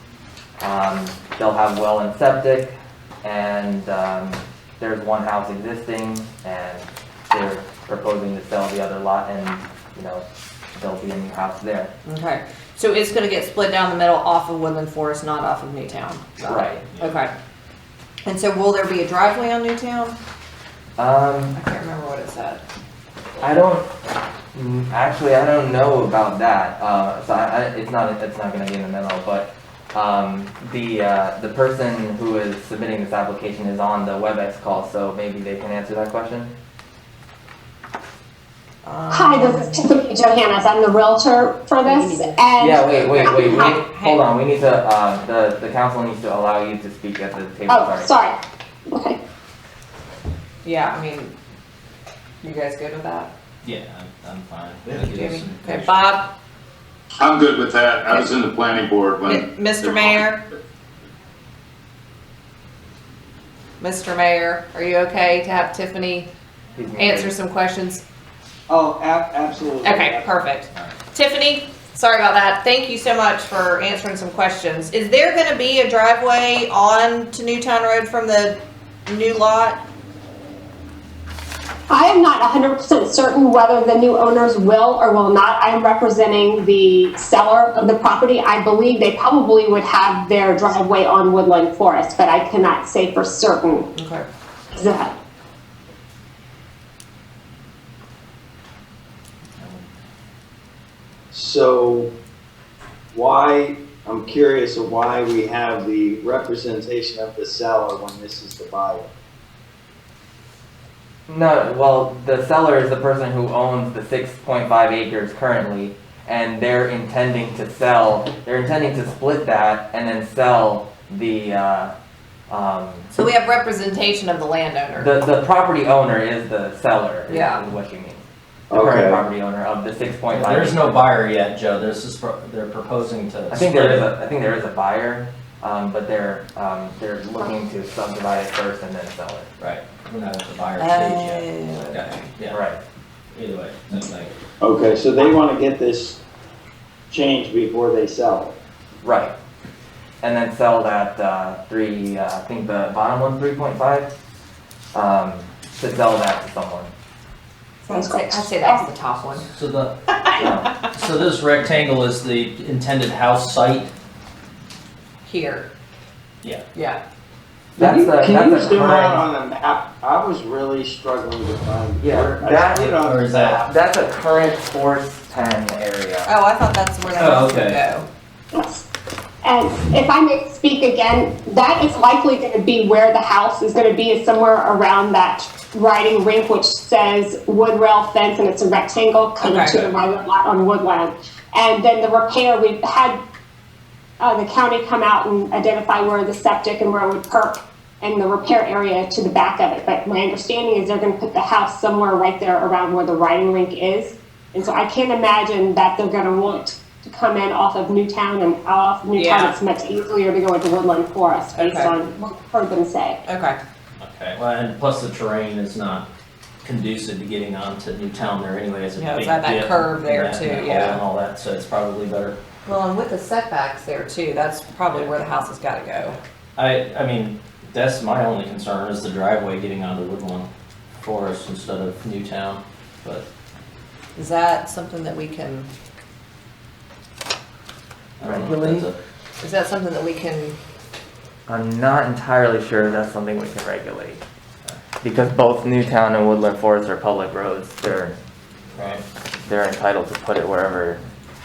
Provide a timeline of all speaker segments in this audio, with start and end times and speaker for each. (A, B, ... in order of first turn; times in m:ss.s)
0:00.6-0:10.2 A
0:10.7-0:11.9 A
0:12.0-0:16.4 B
0:16.4-0:16.8 A
0:16.4-0:17.2 C
0:17.0-0:17.3 B
0:18.2-0:20.2 B
0:21.0-0:21.6 A
0:21.5-0:22.6 B
0:23.4-0:23.9 A
0:24.5-0:36.5 A
0:38.8-0:39.9 B
0:39.1-0:43.8 D
0:41.8-0:44.2 B
0:42.6-0:48.1 A
0:47.7-0:49.2 D
0:50.6-0:51.3 B
0:52.4-0:53.3 B
0:53.6-0:56.2 C
0:54.9-0:56.3 B
0:57.2-1:00.2 E
0:59.2-1:00.4 B
1:03.8-1:06.3 B
1:06.8-1:07.3 A
1:07.0-1:08.0 B
1:08.7-1:10.3 F
1:09.8-1:19.8 B
1:21.9-1:33.9 D
1:33.9-1:34.2 B
1:34.7-1:35.1 D
1:41.3-1:42.1 F
1:43.1-1:49.1 F
1:51.3-2:01.9 A
2:02.5-2:03.1 A
2:03.1-2:05.1 B
2:05.0-2:10.9 A
2:07.3-2:07.6 B
2:08.7-2:09.2 F
2:10.3-2:14.1 C
2:13.5-2:19.5 A
2:19.6-2:22.6 C
2:20.8-2:22.3 B
2:22.5-2:22.8 A
2:23.3-2:24.3 C
2:24.6-2:26.2 F
2:27.1-2:28.5 F
2:29.0-2:29.3 A
2:30.2-2:34.1 A
2:34.9-2:36.9 A
2:37.9-2:38.8 D
2:37.9-2:39.5 B
2:39.5-2:39.9 C
2:40.1-2:40.9 B
2:40.4-2:40.7 A
2:40.9-2:43.9 C
2:45.2-2:45.7 B
2:46.7-2:47.0 B
2:47.8-2:49.2 A
2:47.8-2:53.7 F
2:52.0-2:53.0 A
2:53.0-2:53.6 C
2:53.6-2:56.3 A
2:56.2-2:58.1 B
2:57.1-2:57.8 C
2:58.5-2:58.8 D
2:59.4-3:13.2 D
3:09.4-3:09.9 B
3:14.2-3:33.2 D
3:29.1-3:29.5 B
3:31.6-3:31.9 B
3:33.2-3:33.6 B
3:34.0-3:36.0 C
3:36.6-3:42.4 C
3:39.0-3:41.0 B
3:42.6-3:46.2 B
3:46.6-3:50.5 C
3:51.0-3:53.2 C
3:54.2-3:55.7 B
3:58.2-3:58.9 C
3:58.2-3:58.9 A
3:59.4-4:00.6 B
4:01.5-4:04.2 A
4:05.0-4:08.2 A
4:08.8-4:09.0 C
4:09.4-4:11.0 A